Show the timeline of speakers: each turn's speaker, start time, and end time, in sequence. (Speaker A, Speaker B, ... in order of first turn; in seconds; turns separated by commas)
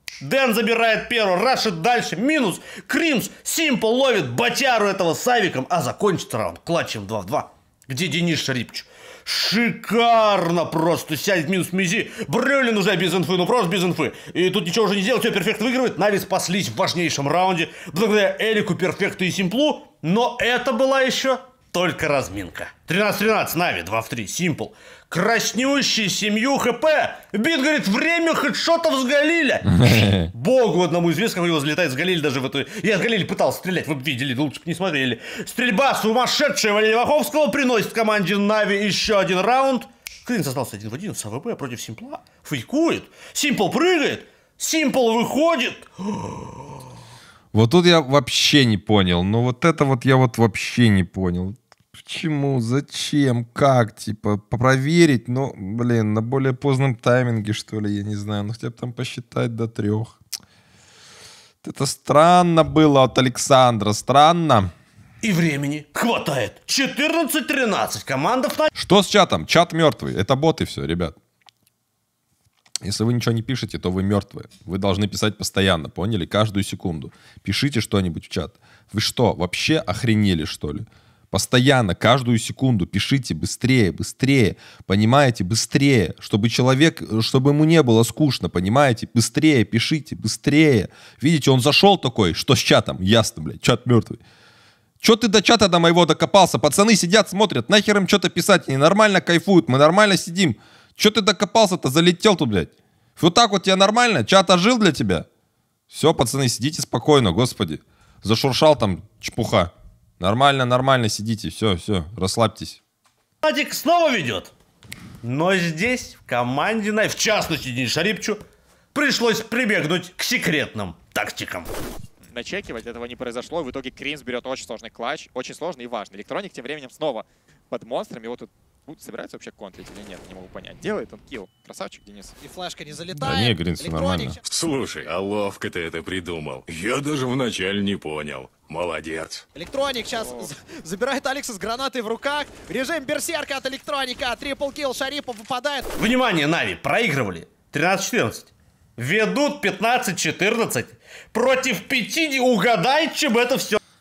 Speaker A: 0.2-46.7, Speaker B: 29.8-30.3, Speaker B: 47.5-60.2, Speaker B: 61.6-64.7, Speaker A: 65.2-68.7, Speaker B: 68.8-71.2, Speaker B: 72.8-94.2, Speaker B: 95.0-105.2, Speaker B: 105.9-112.8, Speaker A: 113.4-114.5, Speaker A: 115.2-118.4, Speaker A: 118.9-121.7, Speaker C: 122.3-132.4, Speaker D: 132.4-134.4, Speaker B: 133.1-134.3, Speaker E: 134.5-139.4, Speaker D: 139.5-145.9, Speaker C: 140.2-140.6, Speaker A: 146.0-153.8